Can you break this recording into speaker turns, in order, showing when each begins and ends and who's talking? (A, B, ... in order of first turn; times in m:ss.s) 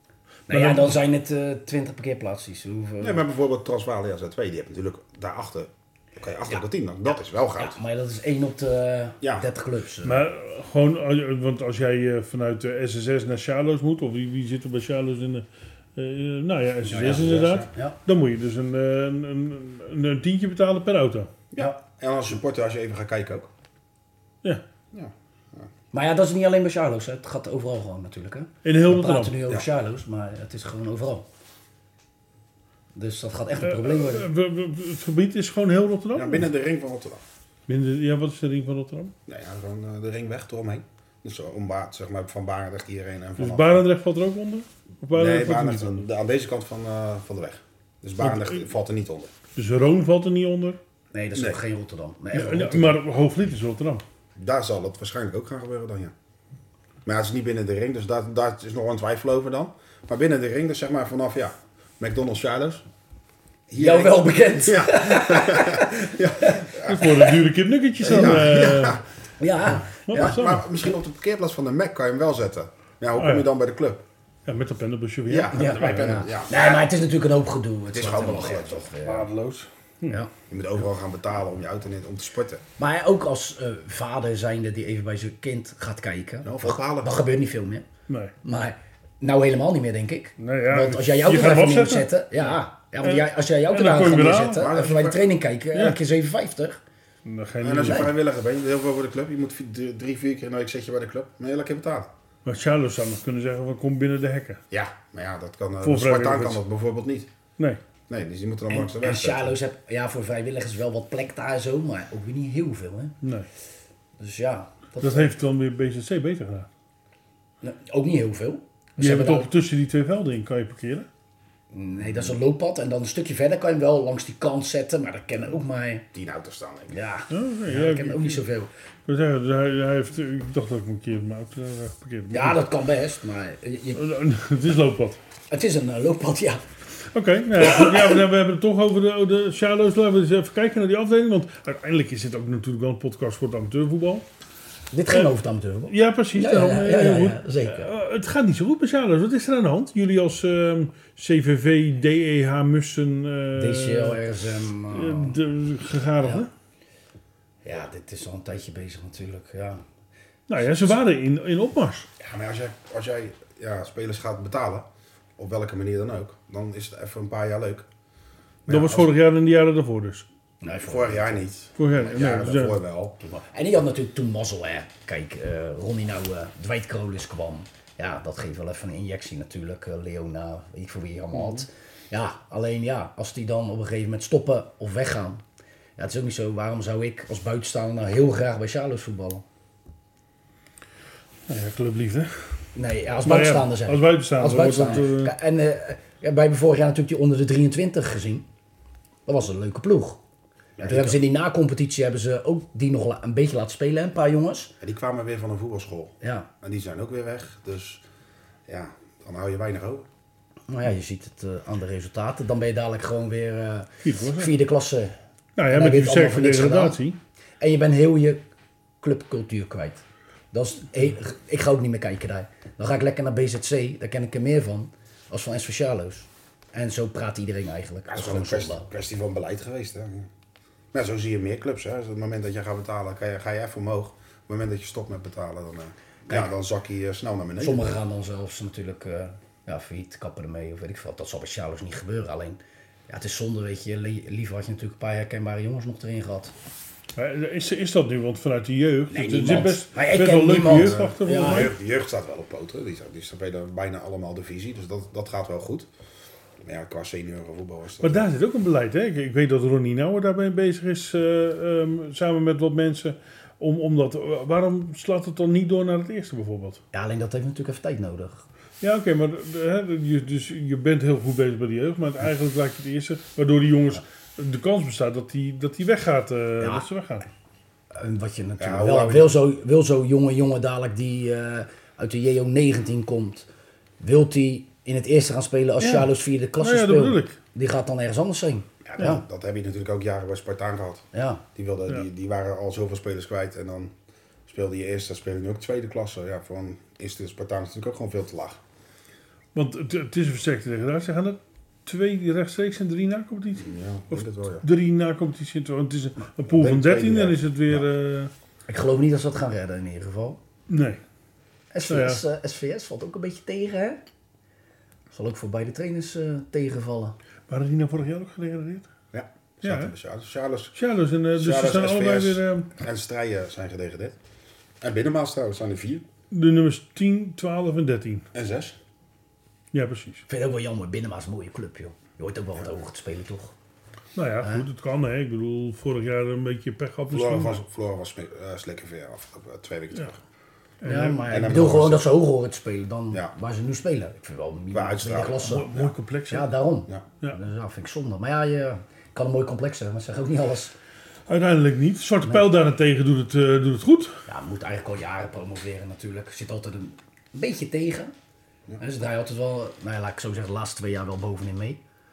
0:00.5-0:03.2 A
0:00.5-0:01.0 B
0:03.0-0:07.8 C
0:07.6-0:10.2 A
0:09.2-0:09.4 C
0:10.0-0:15.4 B
0:16.0-0:21.3 B
0:16.8-0:17.7 C
0:17.0-0:18.0 A
0:21.5-0:23.5 C
0:24.9-0:25.7 C
0:25.9-0:31.2 A
0:28.6-0:29.3 B
0:32.9-0:34.3 A
0:33.6-0:36.5 B
0:36.1-0:37.2 C
0:37.7-0:39.1 B
0:39.3-0:43.8 C
0:43.4-0:46.0 B
0:45.1-0:49.3 C
0:48.2-0:48.6 B
0:49.6-0:50.8 B
0:51.1-0:53.0 A
0:51.3-0:51.6 C
0:52.3-0:54.0 B
0:54.4-0:56.1 C
0:57.0-1:02.8 C
1:03.7-1:07.3 C
1:03.7-1:07.1 A
1:06.8-1:09.0 B
1:08.0-1:09.0 C
1:09.4-1:10.3 A
1:09.9-1:10.7 B
1:10.1-1:14.0 C
1:13.2-1:13.5 B
1:14.4-1:16.2 B
1:15.2-1:16.9 C
1:15.5-1:19.3 A
1:17.9-1:18.9 C
1:19.0-1:20.2 B
1:20.5-1:22.6 C
1:22.8-1:27.8 A
1:26.4-1:27.2 C
1:28.1-1:28.3 B
1:28.4-1:36.8 A
1:30.4-1:32.1 B
1:33.0-1:34.7 B
1:34.6-1:35.2 C
1:37.2-1:38.1 B
1:37.6-1:42.1 C
1:42.4-1:44.6 B
1:44.7-1:47.3 C
1:45.8-1:46.6 B
1:48.1-1:49.6 C
1:48.7-1:53.1 A
1:53.2-1:53.5 B
1:54.2-1:55.3 A
1:55.0-1:56.7 B
1:57.6-1:59.5 A
1:59.0-2:01.1 B
2:01.7-2:06.0 A
2:06.1-2:07.0 C
2:06.9-2:08.7 A
2:07.3-2:08.4 B
2:09.0-2:12.6 B
2:12.3-2:14.0 A
2:13.9-2:15.2 B
2:15.5-2:16.6 A
2:17.1-2:24.2 B
2:17.6-2:18.2 A
2:24.9-2:27.9 A
2:25.9-2:34.2 B
2:33.6-2:35.4 A
2:34.9-2:36.5 B
2:37.6-2:39.8 A
2:40.5-2:42.1 B
2:42.2-2:47.9 C
2:48.6-2:49.1 C
2:48.7-2:50.2 B
2:50.6-2:51.5 A
2:50.8-2:53.2 C
2:51.8-2:52.8 B
2:53.2-3:05.4 A
3:01.3-3:01.6 B
3:06.0-3:09.4 A
3:11.5-3:12.5 B
3:12.7-3:18.4 A
3:13.2-3:15.3 B
3:19.2-3:20.2 A
3:20.8-3:21.2 C
3:20.8-3:24.7 A
3:24.8-3:28.0 C
3:26.2-3:26.5 A
3:28.7-3:30.1 C
3:30.7-3:35.2 A
3:34.0-3:34.5 B
3:35.6-3:37.2 B
3:35.7-3:37.0 A
3:37.6-3:38.4 A
3:39.0-3:48.9 A
3:48.1-3:50.3 C
3:50.9-3:58.0 C
3:57.6-4:06.5 A
4:07.1-4:11.7 B
4:09.1-4:11.7 A
4:10.7-4:15.9 C
4:16.6-4:18.2 C
4:18.0-4:26.8 B
4:26.9-4:28.4 A
4:28.8-4:37.2 B
4:36.6-4:36.8 A
4:37.9-4:43.5 A
4:38.6-4:39.3 C
4:44.0-4:49.2 A
4:45.8-4:47.4 B
4:48.8-4:53.9 C
4:51.1-4:51.4 A
4:54.4-4:58.6 C
4:59.5-5:08.3 B
5:03.6-5:04.6 C
5:06.5-5:07.8 C
5:08.7-5:10.4 A
5:10.7-5:11.0 B
5:11.7-5:14.0 A
5:11.9-5:12.2 B
5:15.1-5:17.2 A
5:17.5-5:18.9 B
5:19.1-5:20.7 C
5:19.6-5:19.9 B
5:20.7-5:22.7 B
5:21.3-5:24.2 C
5:24.8-5:26.0 C
5:26.3-5:28.2 B
5:28.3-5:28.8 C
5:29.7-5:30.2 B
5:30.3-5:33.5 A
5:34.1-5:37.6 B
5:37.1-5:40.2 C
5:40.8-5:41.3 B
5:40.8-5:45.7 A
5:41.3-5:42.1 C
5:44.7-5:45.9 C
5:45.4-5:46.5 B
5:46.3-5:50.7 A
5:51.3-5:54.2 B
5:54.3-5:58.1 A
5:58.8-6:01.8 A